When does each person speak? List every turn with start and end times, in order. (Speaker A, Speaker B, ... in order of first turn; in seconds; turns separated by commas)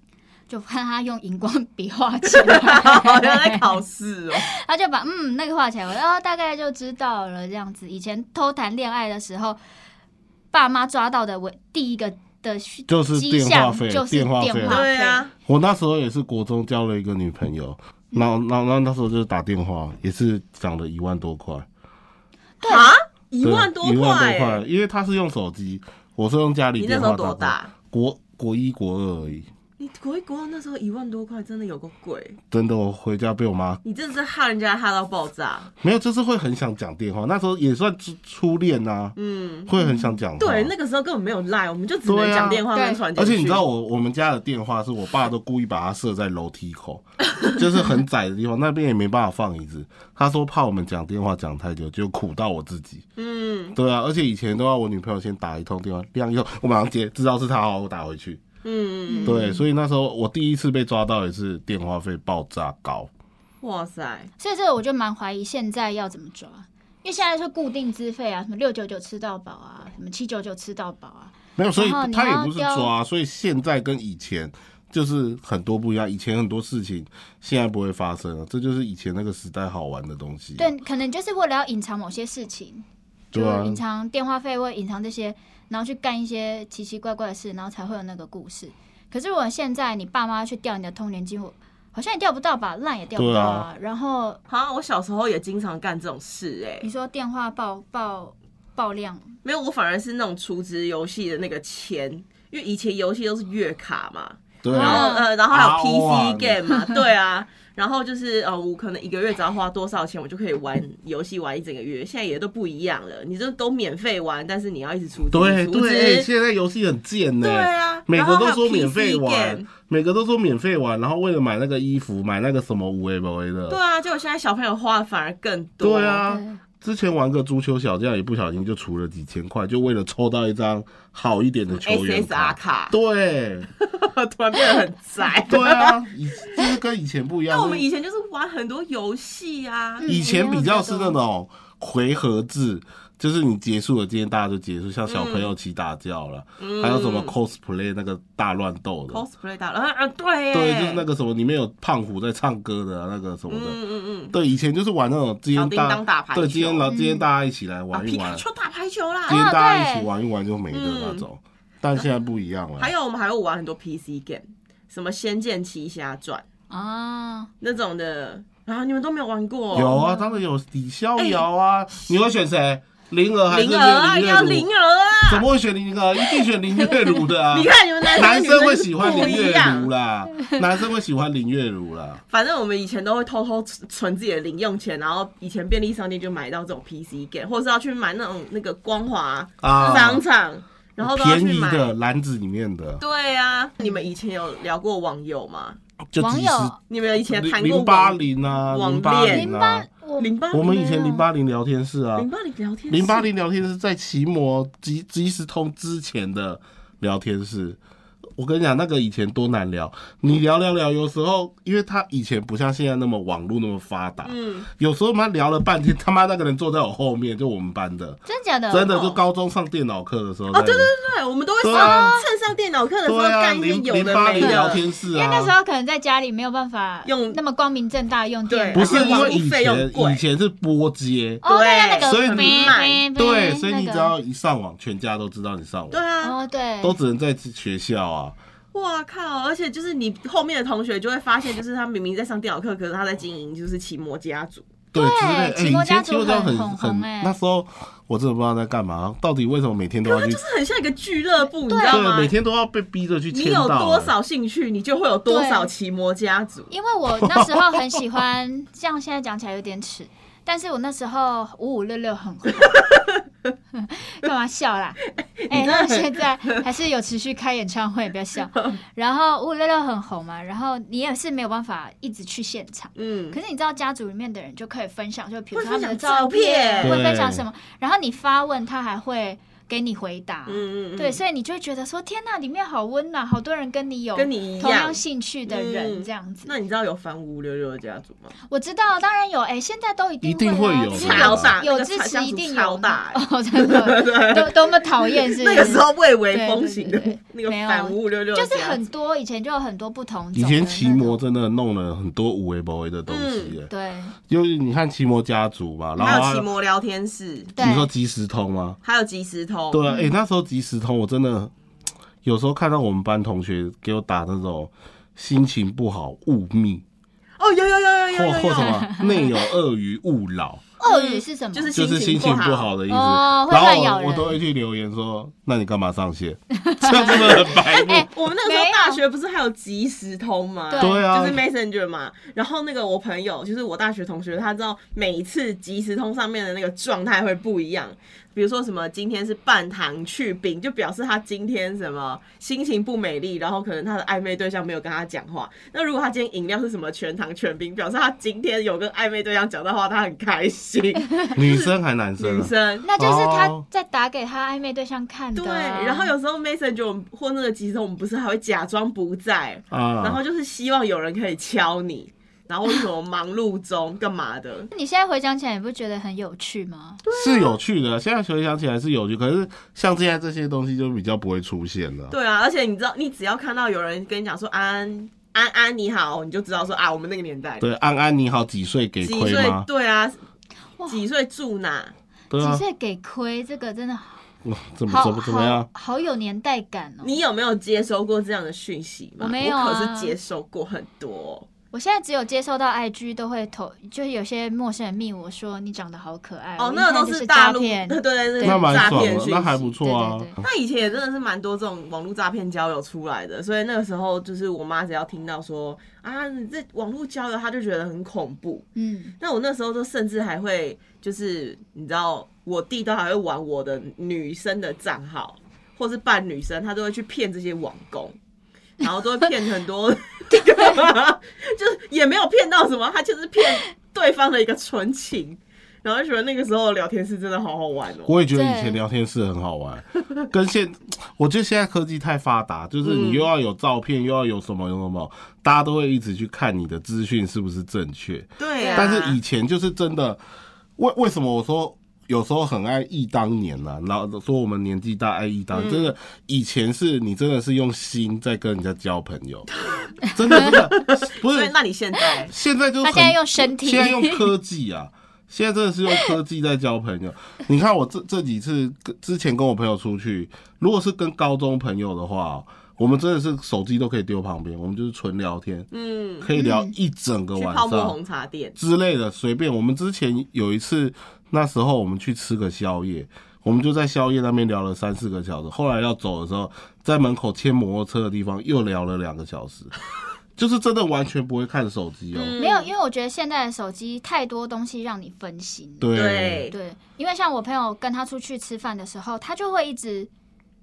Speaker A: 0.5-3.7, Speaker B: 2.2-4.5, Speaker A: 4.3-9.6, Speaker A: 10.5-15.2, Speaker C: 12.9-14.9, Speaker B: 14.7-15.3, Speaker C: 15.4-21.6, Speaker A: 22.6-22.9, Speaker B: 22.6-24.6, Speaker C: 23.4-29.5, Speaker B: 26.8-27.7, Speaker B: 29.8-32.4, Speaker C: 32.5-33.8, Speaker B: 33.8-35.7, Speaker C: 35.8-40.7, Speaker B: 39.1-39.7, Speaker A: 39.8-40.2, Speaker B: 40.4-43.6, Speaker C: 42.0-53.0, Speaker A: 42.7-43.0, Speaker B: 53.2-53.7, Speaker C: 53.7-58.4, Speaker B: 58.6-59.4, Speaker A: 59.1-59.6, Speaker C: 59.2-63.1, Speaker B: 63.6-64.3, Speaker A: 64.4-72.9, Speaker C: 71.6-80.7, Speaker A: 80.6-94.4, Speaker C: 83.3-83.8, Speaker C: 93.1-93.7, Speaker B: 94.5-96.9, Speaker A: 96.8-99.3, Speaker B: 99.4-116.3, Speaker C: 104.6-106.6, Speaker A: 104.7-105.3, Speaker C: 115.3-123.8, Speaker B: 117.4-119.7, Speaker B: 123.7-126.2, Speaker C: 125.8-133.7, Speaker A: 126.2-126.5, Speaker B: 131.8-132.9, Speaker B: 133.8-136.0, Speaker C: 135.5-137.8, Speaker B: 137.5-140.1, Speaker A: 140.0-141.2, Speaker C: 140.1-149.2, Speaker B: 145.1-145.5, Speaker B: 146.6-147.3, Speaker B: 149.1-151.0, Speaker C: 150.5-153.8, Speaker B: 153.5-154.3, Speaker C: 154.3-158.4, Speaker B: 155.5-156.9, Speaker A: 156.8-157.2, Speaker B: 157.9-159.4, Speaker C: 159.3-162.9, Speaker A: 159.3-160.1, Speaker B: 160.7-161.2, Speaker B: 162.8-166.4, Speaker A: 166.7-167.5, Speaker B: 167.6-170.0, Speaker A: 169.7-170.4, Speaker C: 169.7-174.7, Speaker B: 173.5-175.4, Speaker C: 175.3-182.2, Speaker B: 177.5-179.9, Speaker A: 179.0-179.3, Speaker B: 182.3-191.9, Speaker C: 189.6-190.2, Speaker A: 189.8-190.2, Speaker C: 191.0-193.0, Speaker B: 193.0-195.8, Speaker C: 196.1-199.9, Speaker A: 196.2-196.8, Speaker B: 196.9-199.5, Speaker A: 199.3-201.2, Speaker B: 200.2-200.7, Speaker C: 200.5-202.3, Speaker B: 202.2-203.2, Speaker C: 202.9-207.8, Speaker C: 208.4-220.9, Speaker B: 214.2-214.7, Speaker A: 218.2-218.9, Speaker B: 218.8-219.2, Speaker B: 220.5-224.8, Speaker C: 221.6-222.2, Speaker A: 221.7-222.3, Speaker C: 223.1-225.5, Speaker A: 224.4-229.4, Speaker B: 227.0-227.4, Speaker B: 228.5-230.2, Speaker C: 228.7-231.4, Speaker A: 231.4-234.1, Speaker B: 231.4-233.0, Speaker C: 232.0-236.0, Speaker B: 235.9-236.3, Speaker A: 236.2-237.0, Speaker C: 236.8-238.3, Speaker B: 238.7-244.7, Speaker C: 244.9-250.4, Speaker A: 244.9-247.3, Speaker B: 250.0-252.3, Speaker A: 251.7-252.1, Speaker C: 251.9-254.1, Speaker B: 253.3-256.7, Speaker A: 255.3-255.7, Speaker A: 256.7-262.9, Speaker C: 257.1-258.0, Speaker B: 262.8-263.2, Speaker A: 263.7-286.5, Speaker B: 265.2-266.6, Speaker B: 272.9-273.4, Speaker B: 275.5-277.0, Speaker C: 276.8-277.4, Speaker B: 280.4-281.2, Speaker B: 284.1-288.3, Speaker A: 288.5-301.2, Speaker C: 290.2-291.5, Speaker B: 290.9-298.8, Speaker C: 300.3-303.7, Speaker B: 303.1-303.6, Speaker A: 303.7-304.1, Speaker C: 304.3-306.4, Speaker B: 306.0-307.6, Speaker A: 307.6-307.9, Speaker C: 307.6-308.8, Speaker B: 308.8-309.8, Speaker C: 309.7-311.5, Speaker A: 309.9-310.1, Speaker C: 312.2-316.8, Speaker B: 317.4-318.9, Speaker C: 318.1-320.6, Speaker A: 318.6-319.2, Speaker A: 320.8-321.8, Speaker B: 320.8-322.7, Speaker C: 321.7-328.1, Speaker A: 322.9-324.4, Speaker A: 326.6-329.0, Speaker B: 327.7-352.9, Speaker A: 330.7-331.1, Speaker C: 330.8-331.4, Speaker C: 351.3-353.6, Speaker A: 352.8-356.1, Speaker B: 355.3-364.7, Speaker C: 359.7-360.2, Speaker A: 364.7-367.0, Speaker B: 367.0-367.6, Speaker C: 367.1-372.1, Speaker B: 372.1-377.6, Speaker C: 377.6-379.6, Speaker B: 379.0-380.2, Speaker B: 380.9-381.9, Speaker C: 382.3-382.6, Speaker A: 382.4-384.2, Speaker C: 384.4-385.7, Speaker A: 384.9-387.2, Speaker B: 387.0-391.5, Speaker A: 389.2-390.1, Speaker A: 391.7-399.2, Speaker B: 396.6-399.7, Speaker C: 398.4-400.4, Speaker A: 399.8-400.4, Speaker B: 400.4-408.6, Speaker A: 408.8-409.1, Speaker B: 409.2-418.1, Speaker B: 418.8-428.1, Speaker C: 428.1-440.2, Speaker A: 428.3-428.8, Speaker B: 432.8-433.3, Speaker B: 438.4-439.2, Speaker A: 438.6-439.0, Speaker C: 440.8-449.5, Speaker B: 445.5-445.9, Speaker C: 450.0-451.5, Speaker A: 450.3-450.6, Speaker B: 450.3-452.3, Speaker C: 452.3-465.7, Speaker A: 452.8-454.2, Speaker B: 465.7-466.3, Speaker C: 466.2-467.9, Speaker A: 466.4-466.7, Speaker B: 467.3-468.6, Speaker C: 468.6-479.7, Speaker C: 480.4-482.4, Speaker B: 482.1-482.7, Speaker A: 482.4-485.9, Speaker C: 485.8-486.4, Speaker B: 485.9-486.5, Speaker A: 486.5-490.1